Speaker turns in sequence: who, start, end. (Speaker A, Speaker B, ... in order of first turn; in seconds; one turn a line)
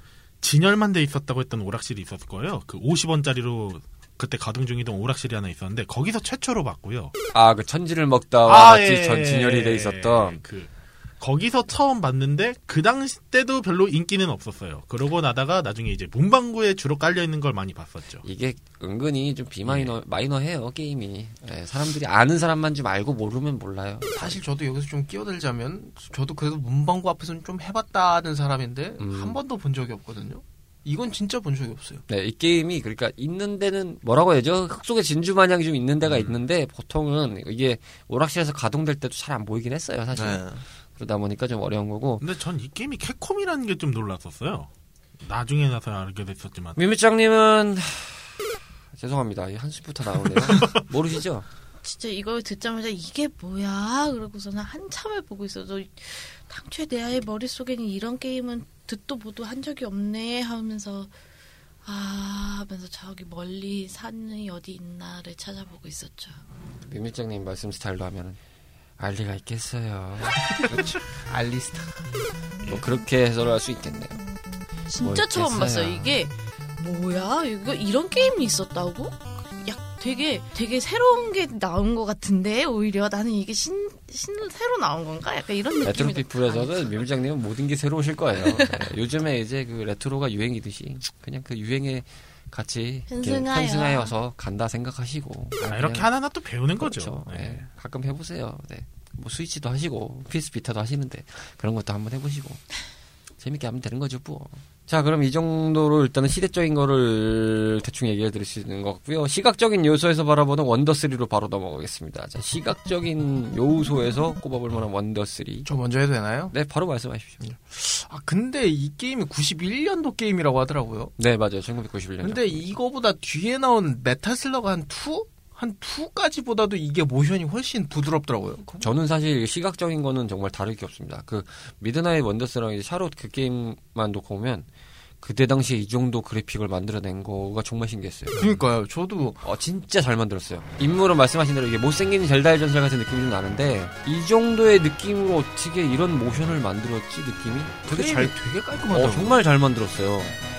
Speaker A: 0.4-7.1
Speaker B: 7.3-10.4
Speaker A: 8.5-18.2
Speaker B: 18.2-24.4
Speaker A: 19.7-19.9
Speaker C: 24.1-32.0
Speaker B: 29.0-29.4
Speaker B: 32.1-42.2
Speaker A: 36.0-36.4
Speaker C: 40.1-40.6
Speaker A: 42.2-44.7
Speaker A: 45.2-46.8
Speaker B: 46.8-48.4
Speaker B: 48.9-51.5
Speaker D: 51.8-61.1
Speaker D: 61.8-66.4
Speaker B: 66.8-68.4
Speaker B: 69.0-70.9
Speaker C: 70.5-72.1
Speaker B: 72.7-74.2
Speaker D: 74.9-87.0
Speaker B: 75.0-76.2
Speaker B: 85.8-96.1
Speaker D: 93.1-94.1
Speaker A: 95.7-97.7
Speaker B: 96.8-102.7
Speaker B: 103.4-115.7
Speaker C: 115.7-116.5
Speaker B: 116.5-117.5
Speaker C: 117.4-121.1
Speaker B: 121.2-122.6
Speaker C: 122.2-128.9
Speaker B: 128.8-134.7
Speaker B: 135.2-138.4
Speaker C: 138.4-139.4
Speaker B: 139.4-148.4
Speaker C: 147.9-149.4
Speaker B: 148.9-150.4